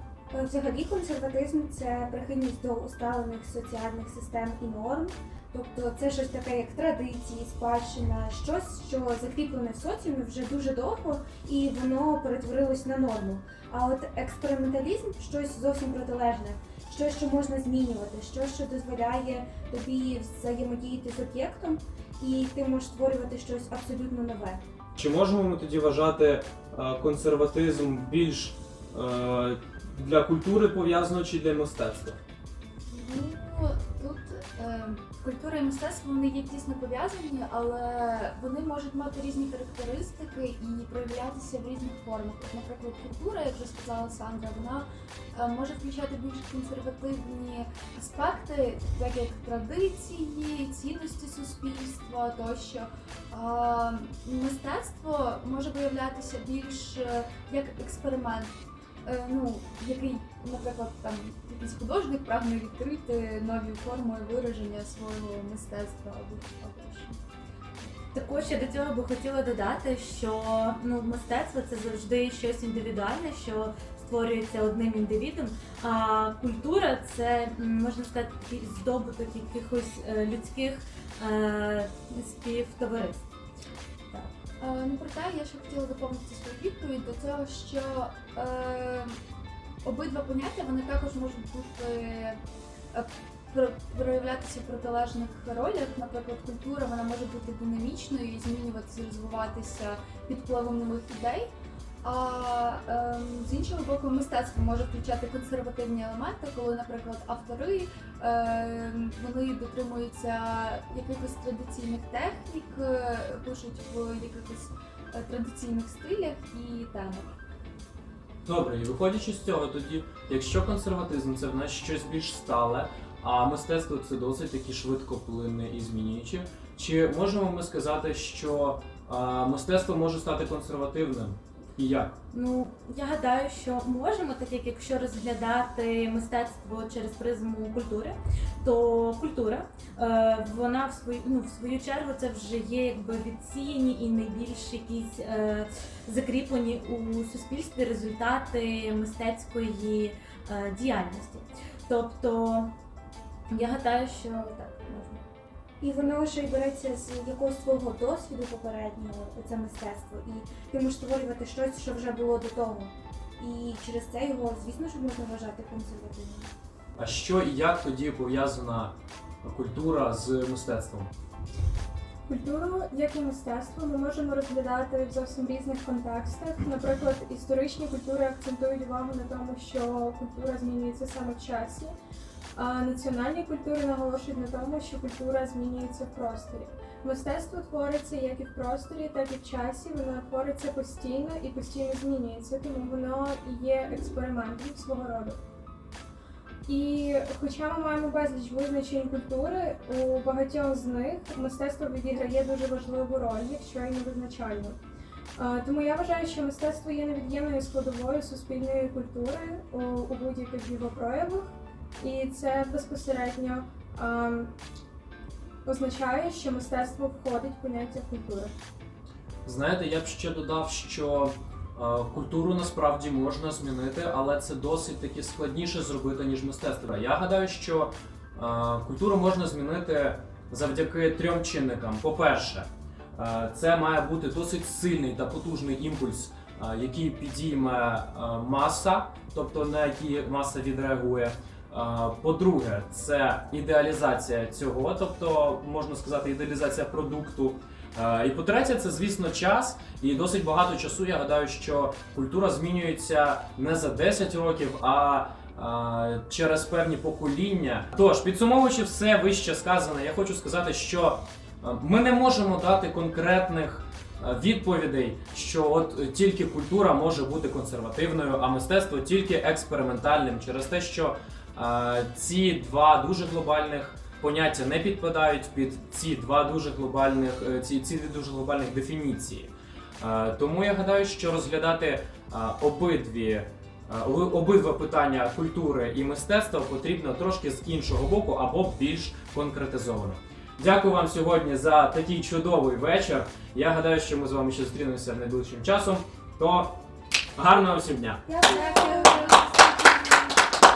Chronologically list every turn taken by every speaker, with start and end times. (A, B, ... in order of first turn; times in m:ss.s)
0:00.3-0:24.6 A
0:25.0-0:32.2 B
0:32.9-0:58.5 C
0:59.0-1:07.2 C
1:08.1-1:23.3 D
1:24.6-1:29.2 C
1:29.8-1:32.4 C
1:32.9-1:41.5 C
1:42.0-1:57.4 C
1:58.4-2:12.2 B
2:12.3-2:32.7 D
2:33.5-2:35.2 D
2:35.8-2:46.5 A
2:47.0-2:51.1 B
2:52.3-3:01.9 E
3:02.5-3:15.4 E
3:16.6-3:24.8 E
3:25.4-3:34.5 E
3:35.6-3:38.5 E
3:39.4-4:56.8 B
4:57.4-4:58.2 B
4:58.3-4:59.4 A
4:58.3-5:00.3 C